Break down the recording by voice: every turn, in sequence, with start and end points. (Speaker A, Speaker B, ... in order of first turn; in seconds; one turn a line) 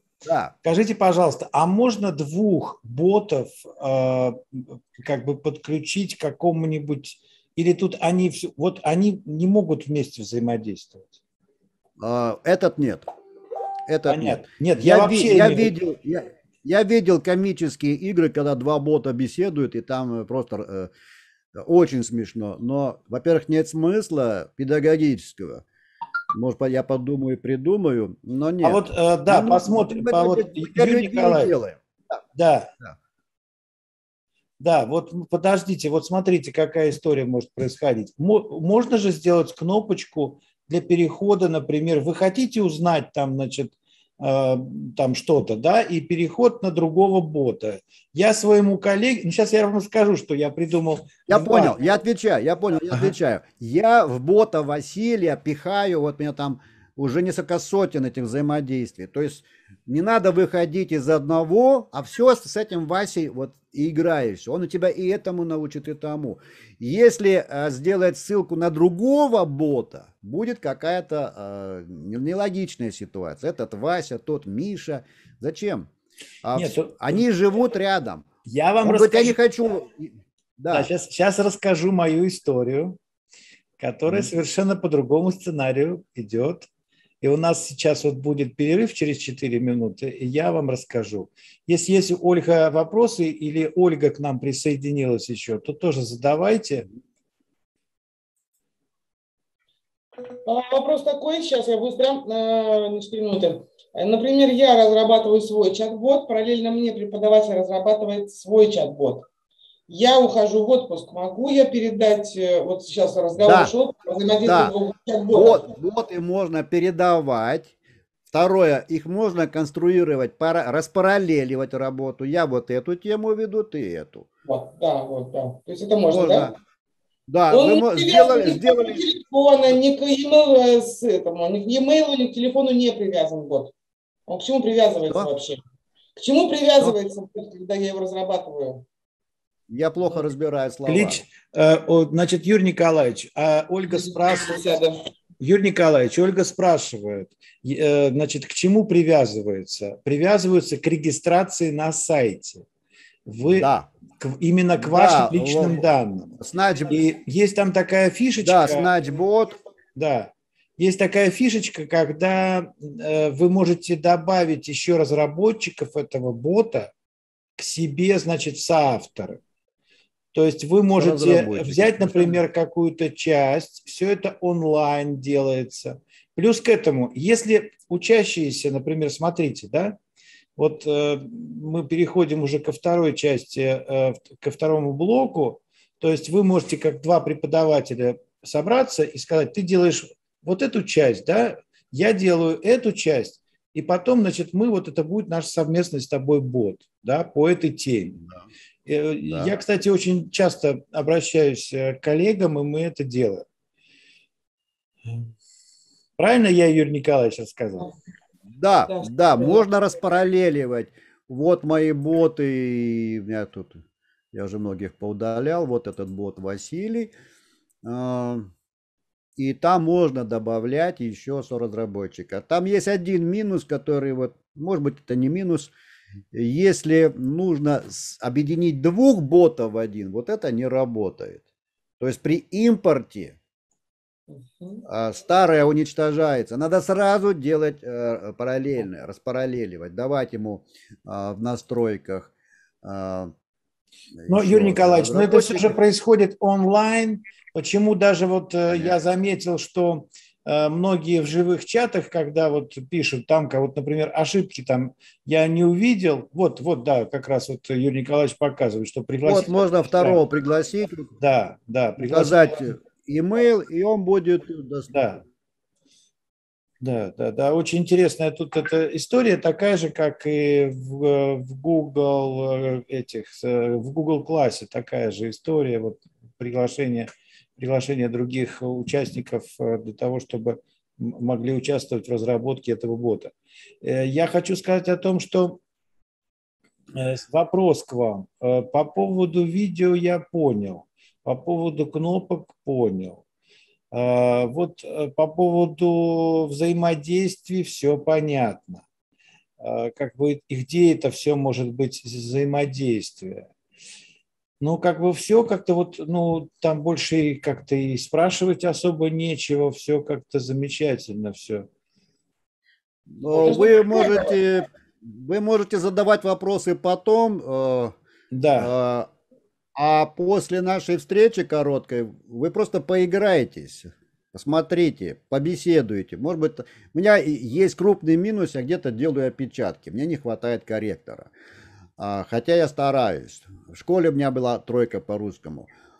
Speaker A: 0.2-0.5
Speaker B: 0.6-11.1
Speaker A: 12.0-13.1
Speaker A: 13.9-20.9
Speaker B: 14.1-15.7
Speaker A: 21.6-25.6
Speaker A: 26.3-32.2
Speaker B: 28.6-31.5
Speaker B: 32.3-32.7
Speaker B: 34.6-51.7
Speaker A: 51.3-75.9
Speaker A: 76.4-78.3
Speaker B: 76.5-77.0
Speaker B: 78.5-79.4
Speaker A: 78.8-80.9
Speaker B: 80.7-83.0
Speaker B: 83.8-86.7
Speaker B: 87.2-96.8
Speaker C: 100.4-109.3
Speaker C: 109.9-115.7
Speaker A: 113.4-113.7
Speaker A: 114.4-114.7
Speaker A: 115.3-117.7
Speaker A: 118.3-124.3
Speaker C: 124.5-126.5
Speaker A: 126.1-126.5
Speaker A: 127.3-129.1
Speaker C: 127.5-133.7
Speaker C: 134.3-135.6
Speaker C: 136.2-138.8
Speaker A: 139.7-141.2
Speaker B: 140.8-144.8
Speaker C: 143.9-145.0
Speaker B: 145.4-152.6
Speaker B: 153.2-156.3
Speaker A: 153.5-153.9
Speaker A: 154.8-155.8
Speaker A: 156.4-157.0
Speaker B: 156.9-158.9
Speaker A: 158.4-159.6
Speaker B: 159.9-166.9
Speaker B: 167.6-169.4
Speaker B: 170.3-180.0
Speaker A: 171.0-172.4
Speaker B: 180.6-198.2
Speaker B: 198.8-203.4
Speaker A: 199.3-199.6
Speaker B: 206.2-207.9
Speaker A: 208.6-213.8
Speaker C: 208.9-209.6
Speaker A: 214.3-217.1
Speaker A: 217.8-218.5
Speaker A: 219.4-225.7
Speaker A: 226.3-231.4
Speaker A: 232.0-233.3
Speaker C: 234.6-234.8
Speaker A: 234.8-242.3
Speaker A: 242.8-243.3
Speaker A: 244.2-245.8
Speaker B: 244.3-260.2
Speaker A: 248.7-248.9
Speaker A: 259.2-261.1
Speaker B: 261.2-262.6
Speaker A: 262.0-264.9
Speaker B: 264.9-265.2
Speaker B: 266.8-285.6
Speaker B: 286.9-293.2
Speaker B: 293.9-298.8
Speaker B: 299.6-303.5
Speaker B: 304.6-311.7
Speaker A: 313.1-317.9
Speaker C: 313.3-314.4
Speaker B: 318.3-318.7
Speaker A: 318.6-319.1
Speaker A: 319.8-331.3
Speaker A: 332.0-335.7